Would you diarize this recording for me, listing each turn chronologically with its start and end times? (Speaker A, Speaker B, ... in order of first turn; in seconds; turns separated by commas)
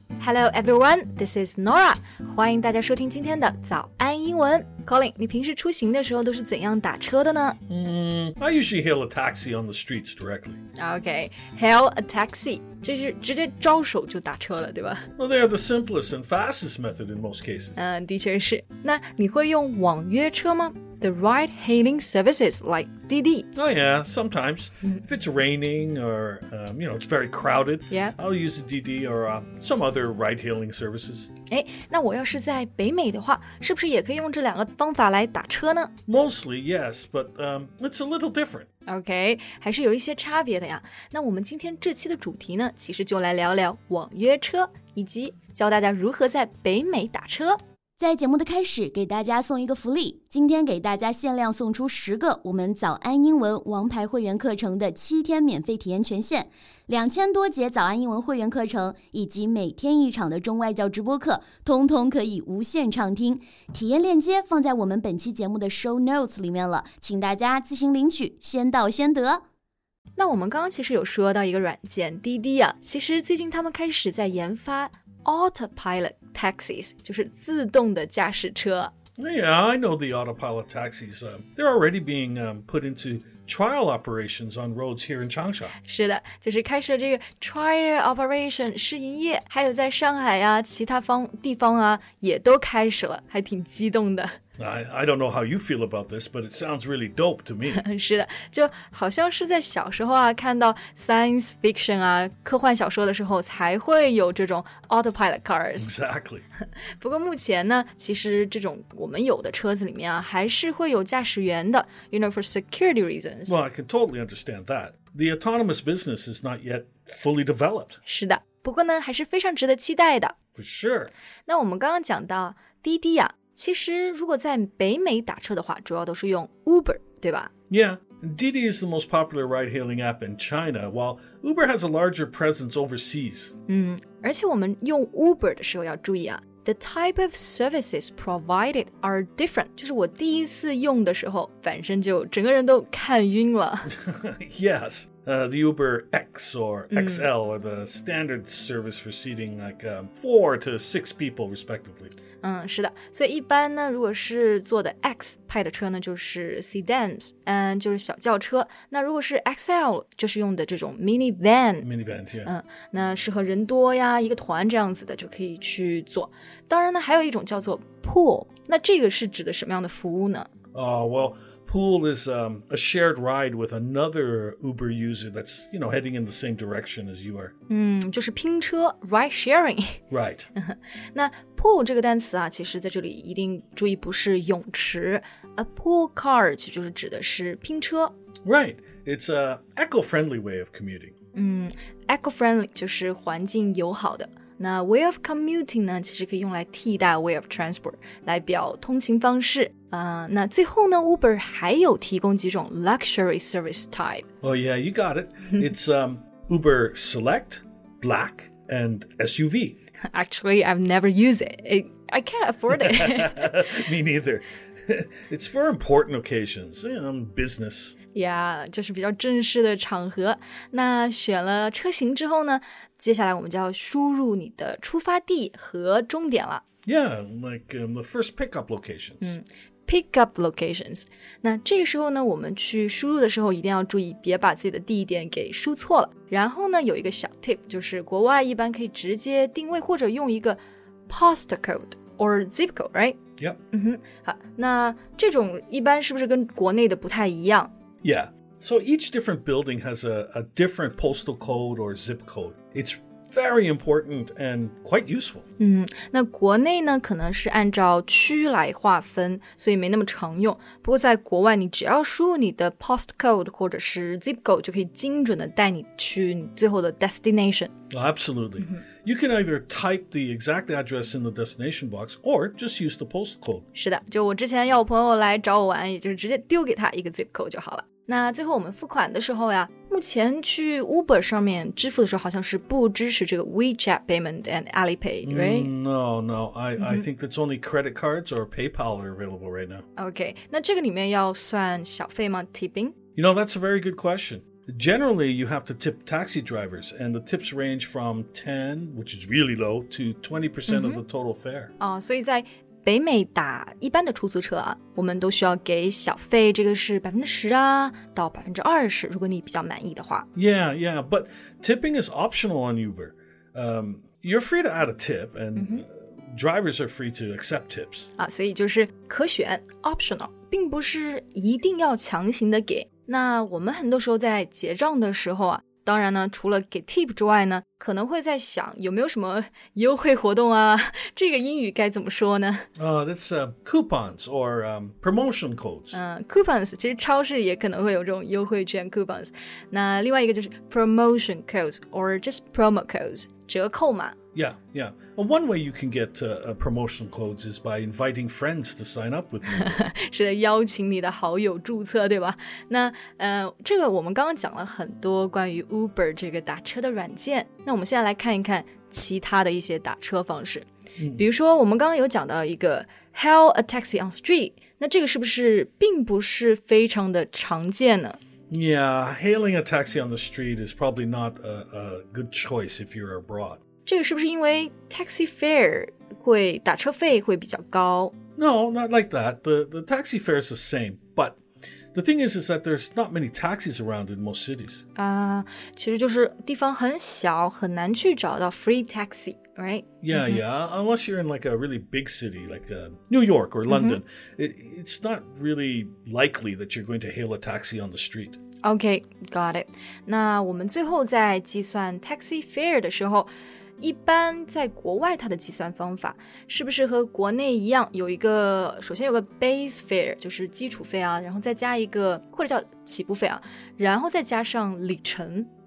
Speaker A: 0.2-7.6, Speaker B: 7.7-10.6, Speaker A: 10.8-15.1, Speaker B: 15.2-17.9, Speaker A: 17.8-23.5, Speaker B: 23.6-31.3, Speaker A: 27.9-28.1, Speaker A: 31.5-35.9, Speaker B: 36.1-38.7, Speaker A: 38.9-47.6, Speaker C: 48.0-69.4, Speaker A: 70.2-78.9, Speaker B: 79.2-85.7, Speaker A: 85.8-94.4, Speaker B: 94.6-97.8, Speaker A: 97.7-106.0, Speaker B: 105.8-106.4, Speaker A: 107.0-113.6, Speaker B: 113.5-118.0, Speaker A: 118.1-120.3, Speaker B: 120.6-121.1, Speaker A: 121.5-127.5, Speaker B: 127.7-133.5, Speaker A: 133.7-143.9, Speaker B: 143.9-152.2, Speaker A: 146.9-147.3, Speaker A: 152.4-161.9, Speaker B: 161.8-162.5, Speaker A: 162.4-170.5, Speaker B: 170.7-177.5, Speaker A: 177.7-180.0, Speaker B: 180.1-180.5, Speaker A: 180.6-188.1, Speaker B: 188.4-191.1, Speaker A: 191.3-204.3, Speaker B: 204.4-209.8, Speaker A: 210.1-213.7, Speaker B: 212.7-218.0, Speaker A: 218.1-226.6, Speaker B: 226.8-229.3, Speaker A: 229.2-243.2, Speaker A: 243.7-247.7, Speaker B: 248.0-255.4, Speaker A: 255.6-267.7, Speaker B: 267.9-273.6, Speaker A: 273.8-285.7, Speaker B: 285.2-289.8, Speaker A: 286.8-287.1, Speaker A: 290.0-293.0, Speaker B: 293.1-301.7, Speaker A: 300.7-301.0, Speaker A: 301.8-310.3, Speaker B: 310.4-318.1, Speaker A: 315.6-315.9, Speaker A: 318.2-332.7, Speaker B: 332.8-336.0, Speaker A: 335.9-344.2, Speaker B: 344.4-349.8, Speaker A: 349.5-368.2, Speaker B: 361.0-361.2, Speaker B: 368.5-373.6, Speaker A: 373.9-378.2, Speaker B: 378.4-381.4, Speaker B: 381.9-384.9, Speaker A: 385.0-390.4, Speaker B: 390.0-398.4, Speaker A: 393.7-394.0, Speaker A: 398.6-403.3, Speaker A: 403.8-415.5